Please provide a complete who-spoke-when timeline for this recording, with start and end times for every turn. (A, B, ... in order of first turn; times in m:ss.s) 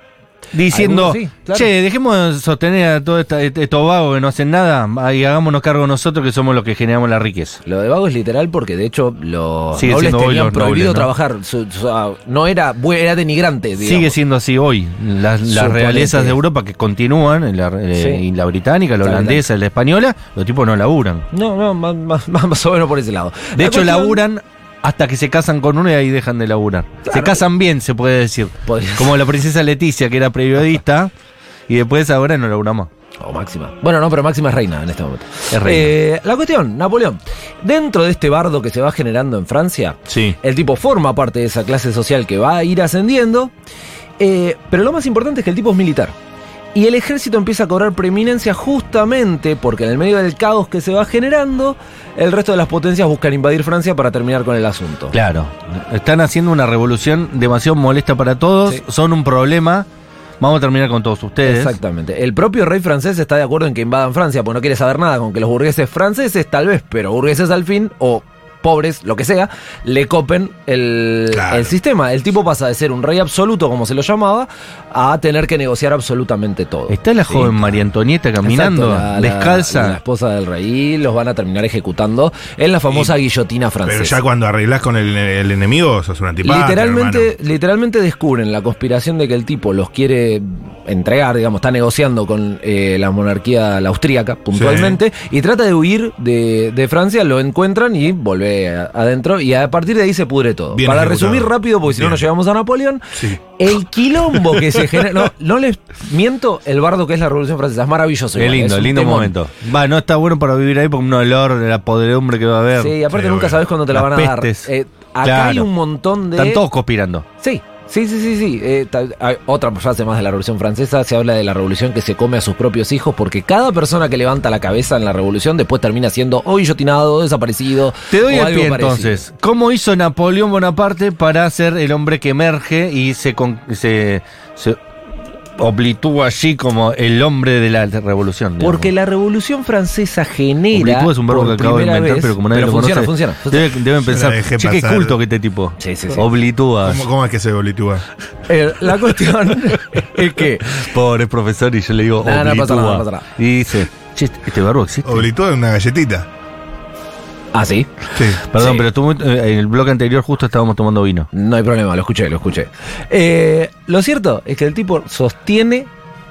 0:00.5-0:07.6 A
0:00.7-0:01.7 B
0:07.7-0:14.2 B
0:09.8-0:11.1 A
0:13.8-0:21.3 A
0:15.5-0:16.4 B
0:18.0-0:18.2 B
0:19.0-0:19.4 B
0:21.3-0:24.2 B
0:23.6-0:31.1 A
0:27.1-0:27.4 B
0:28.7-0:29.2 B
0:31.7-0:32.9 A
0:33.2-0:43.5 B
0:35.5-0:35.9 A
0:40.1-0:40.4 A
0:44.2-0:46.2 B
0:46.8-0:55.2 B
0:55.1-0:59.9 A
1:00.4-1:01.8 A
1:01.4-1:17.7 B
1:11.3-1:11.7 C
1:16.9-1:20.0 A
1:18.4-1:24.2 B
1:23.8-1:27.3 C
1:26.4-1:49.4 B
1:34.5-1:35.0 C
1:40.7-1:42.2 C
1:43.1-1:43.4 C
1:48.4-1:53.0 A
1:52.8-1:56.6 B
1:53.1-1:53.6 C
1:53.9-1:54.7 A
1:55.2-1:55.7 A
1:56.3-1:57.2 A
1:57.4-2:09.2 B
2:08.1-2:14.8 A
2:15.6-2:18.9 A
2:18.6-2:23.7 B
2:20.7-2:27.0 A
2:24.0-2:25.2 C
2:25.8-2:26.2 B
2:26.8-2:28.0 C
2:28.5-2:30.9 B
2:30.7-2:35.2 A
2:32.2-2:33.3 B
2:35.0-2:36.3 C
2:37.5-2:37.9 B
2:38.2-2:38.4 C
2:38.4-2:41.3 A
2:38.6-2:38.8 B
2:41.3-2:45.9 B